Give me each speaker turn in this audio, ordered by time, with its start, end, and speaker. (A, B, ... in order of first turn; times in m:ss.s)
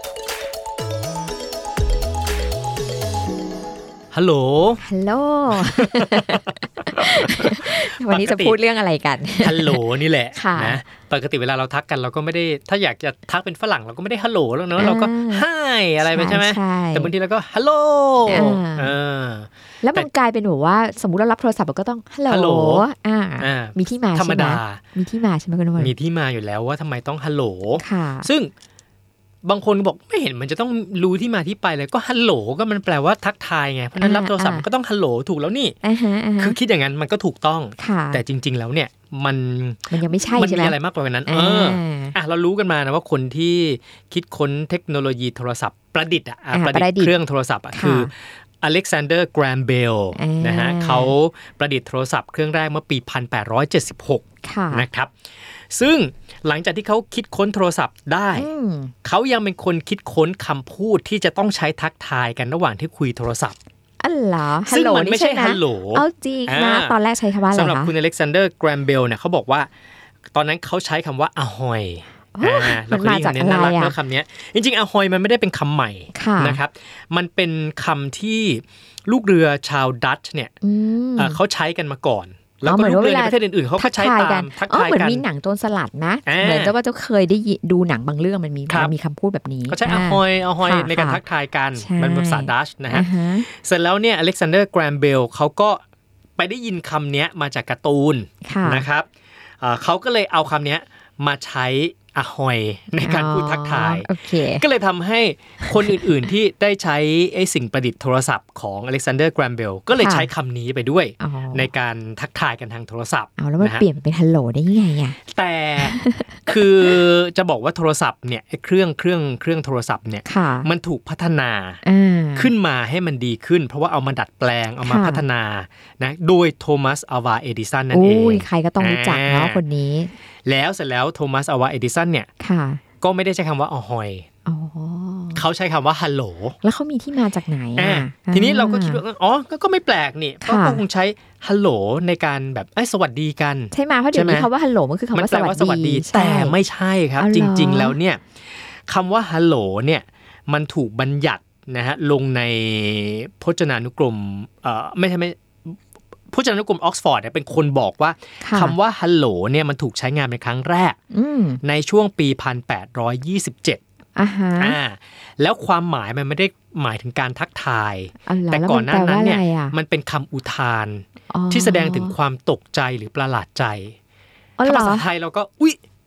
0:04.1-0:04.8 A
0:04.8-0:09.8 B
0:05.5-0:08.6 A
0:09.4-0:20.1 A
0:10.3-0:10.8 B
0:14.8-0:15.4 B
0:16.0-0:17.1 B
0:18.2-0:18.9 B
0:19.8-0:25.9 B
0:22.3-0:22.8 A
0:23.4-0:24.8 A
0:25.8-0:28.5 A
0:27.8-0:28.3 B
0:29.4-0:35.8 A
0:34.0-0:34.6 B
0:35.8-0:36.6 B
0:36.4-0:58.5 A
0:37.8-0:38.2 B
0:39.9-0:42.1 B
0:46.5-0:47.1 B
0:47.7-0:48.1 B
0:50.1-0:51.1 B
0:54.4-0:54.9 B
0:58.3-0:58.9 B
0:59.0-1:03.6 A
1:04.0-1:07.9 B
1:04.6-1:07.0 A
1:07.5-1:09.7 A
1:10.3-1:20.5 A
1:12.3-1:14.0 B
1:16.1-1:16.6 B
1:20.6-1:21.4 B
1:21.2-1:25.2 A
1:22.6-1:31.2 B
1:26.2-1:26.7 A
1:28.7-1:28.9 A
1:29.7-1:35.8 A
1:31.7-1:33.5 B
1:36.4-1:39.1 A
1:38.4-1:38.9 B
1:39.6-1:53.8 A
1:43.0-1:44.6 B
1:45.6-1:46.1 B
1:50.0-1:50.3 B
1:51.2-1:51.7 B
1:53.4-1:55.2 B
1:55.3-2:01.8 A
1:55.8-1:56.6 B
2:00.2-2:00.7 B
2:01.8-2:02.5 B
2:02.4-2:09.6 A
2:04.8-2:05.2 B
2:07.9-2:10.1 B
2:10.4-2:12.3 A
2:12.4-2:12.8 B
2:13.0-2:14.2 A
2:14.4-2:15.4 B
2:15.3-2:16.6 A
2:16.6-2:19.0 B
2:17.8-2:24.5 A
2:20.4-2:20.8 B
2:23.7-2:26.6 B
2:25.1-2:35.8 A
2:27.2-2:28.0 B
2:36.3-2:41.0 A
2:38.4-2:38.8 B
2:41.1-2:41.6 B
2:41.6-2:43.8 A
2:44.2-2:44.8 B
2:44.6-2:53.9 A
2:48.2-2:49.8 B
2:51.3-2:52.2 B
2:54.6-2:55.1 B
2:54.6-2:55.8 A